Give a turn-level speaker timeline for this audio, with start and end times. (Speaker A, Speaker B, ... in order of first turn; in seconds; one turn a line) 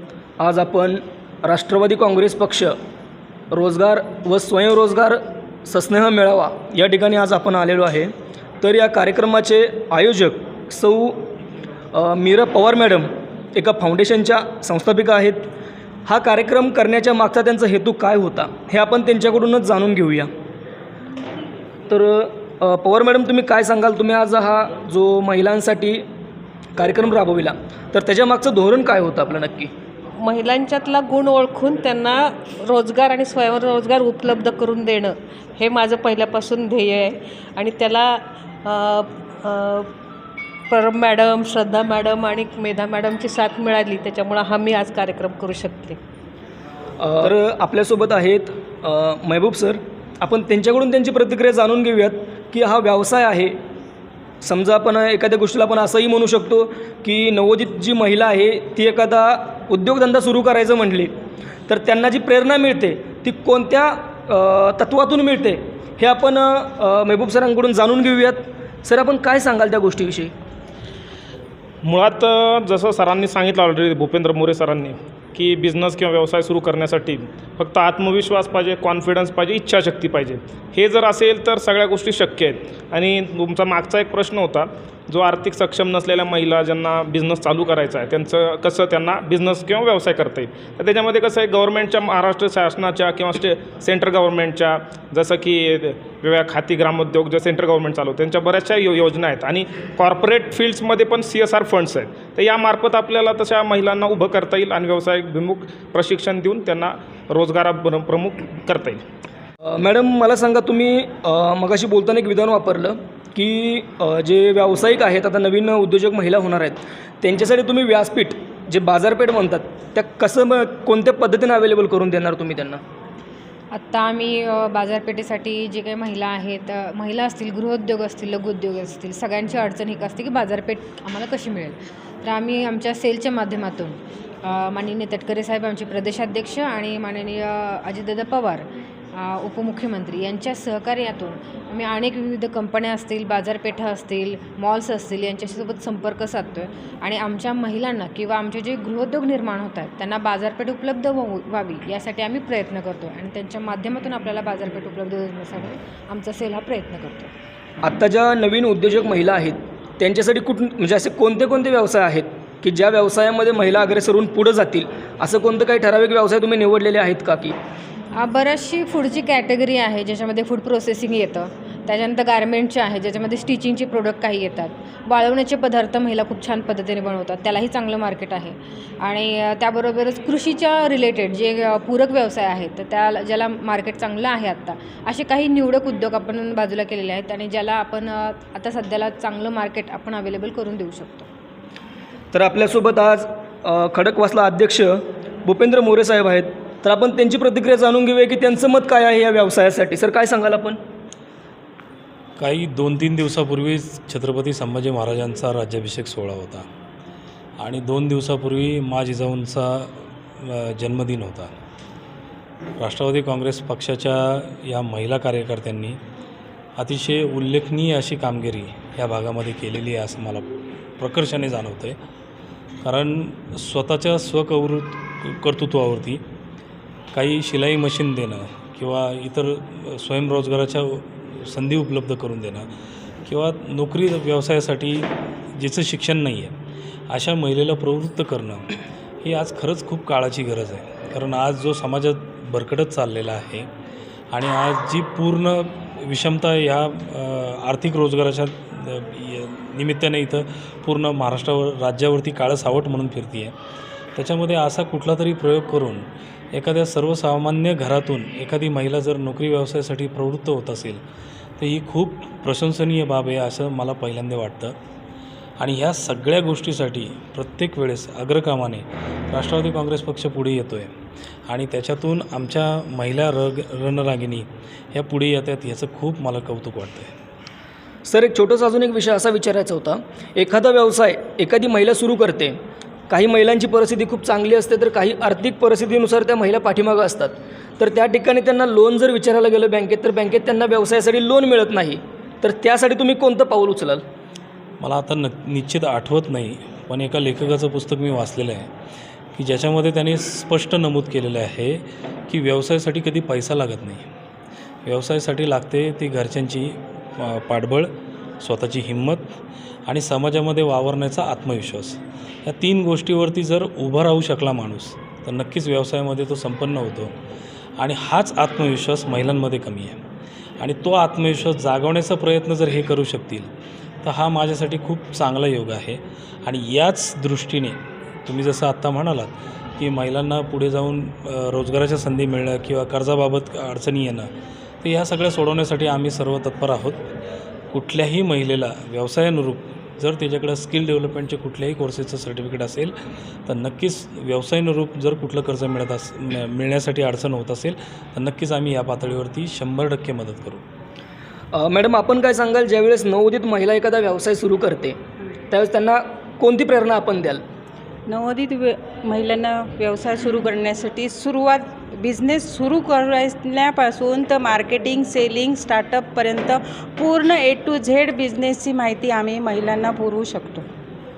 Speaker A: 0.4-2.8
Speaker A: 3.5-11.3
Speaker A: 11.9-15.5
Speaker A: 16.1-20.3
Speaker A: 21.9-26.0
Speaker A: 26.8-29.7
Speaker B: 30.2-39.9
Speaker B: 40.7-46.0
Speaker A: 47.0-53.5
Speaker A: 54.4-61.1
Speaker A: 61.7-70.3
Speaker C: 71.8-109.0
Speaker A: 109.6-122.8
Speaker D: 123.7-157.3
Speaker A: 157.8-167.6
Speaker D: 168.2-191.3
Speaker A: 192.3-200.8
Speaker E: 202.4-206.7
Speaker E: 207.6-211.5
Speaker E: 212.8-216.0
Speaker E: 216.8-220.5
Speaker E: 221.0-222.0
Speaker E: 222.8-226.2
Speaker E: 227.1-232.7
Speaker E: 233.3-236.6
Speaker E: 237.1-238.7
Speaker E: 239.2-243.7
Speaker E: 244.3-253.5
Speaker E: 254.2-261.0
Speaker E: 261.6-264.8
Speaker E: 265.6-270.9
Speaker E: 271.5-277.1
Speaker A: 278.1-282.6
Speaker A: 283.1-294.0
Speaker E: 294.8-298.7
Speaker E: 299.4-304.1
Speaker E: 304.9-309.4
Speaker E: 309.9-317.1
Speaker E: 317.8-320.0
Speaker E: 320.6-323.5
Speaker E: 324.0-334.3
Speaker E: 334.8-337.1
Speaker E: 337.7-342.9
Speaker E: 343.5-350.6
Speaker A: 351.5-355.0
Speaker A: 355.5-357.4
Speaker F: 358.1-370.6